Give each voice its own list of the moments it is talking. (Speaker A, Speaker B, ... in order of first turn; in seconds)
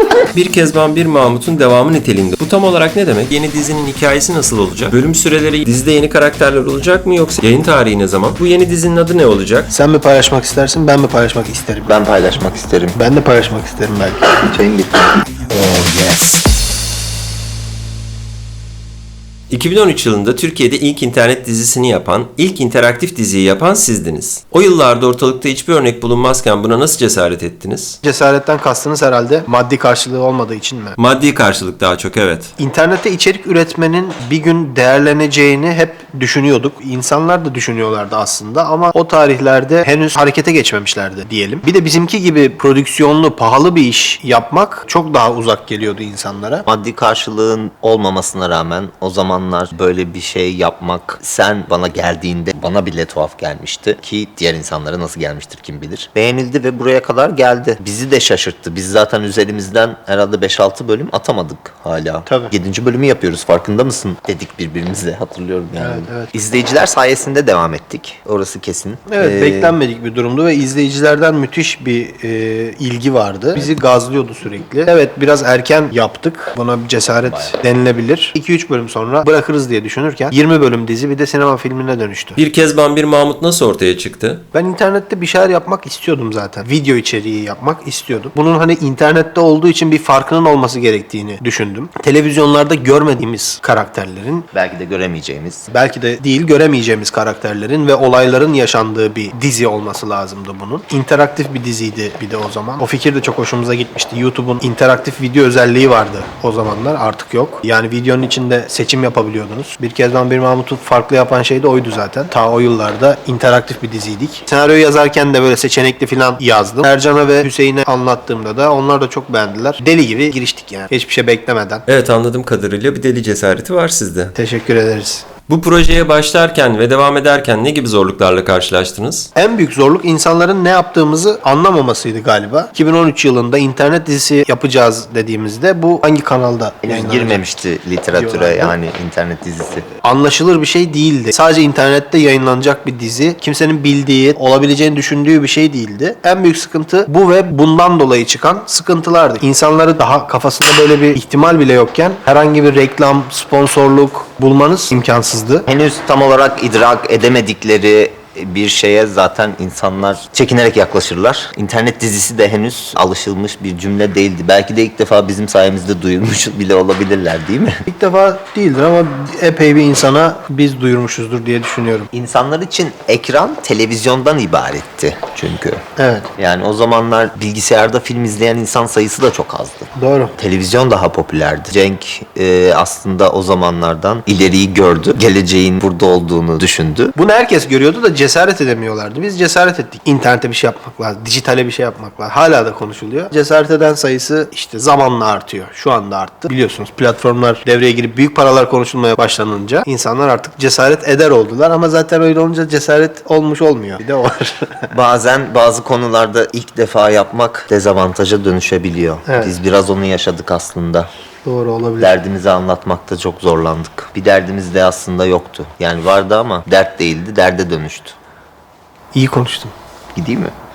Speaker A: 0.3-9.7, 19.5-28.0, 31.0-32.5, 82.4-84.4, 121.9-124.3, 125.5-129.3
Speaker B: 9.7-11.9, 12.9-14.3, 28.0-30.9, 32.6-46.6, 65.8-66.2, 69.1-82.4, 84.5-94.5, 95.7-121.8, 124.4-125.2, 129.3-137.4, 138.1-138.7, 140.0-155.7, 167.9-172.1, 176.0-176.3, 180.0-180.3, 187.2-204.9, 209.3-209.5, 211.4-212.1, 219.1-219.7
Speaker C: 11.8-13.0, 14.3-16.4, 46.6-69.7, 77.2-77.6, 94.5-95.7, 136.8-139.9, 155.7-167.8, 172.1-175.8, 176.4-187.1, 204.9-211.1, 212.0-218.1, 220.1-220.5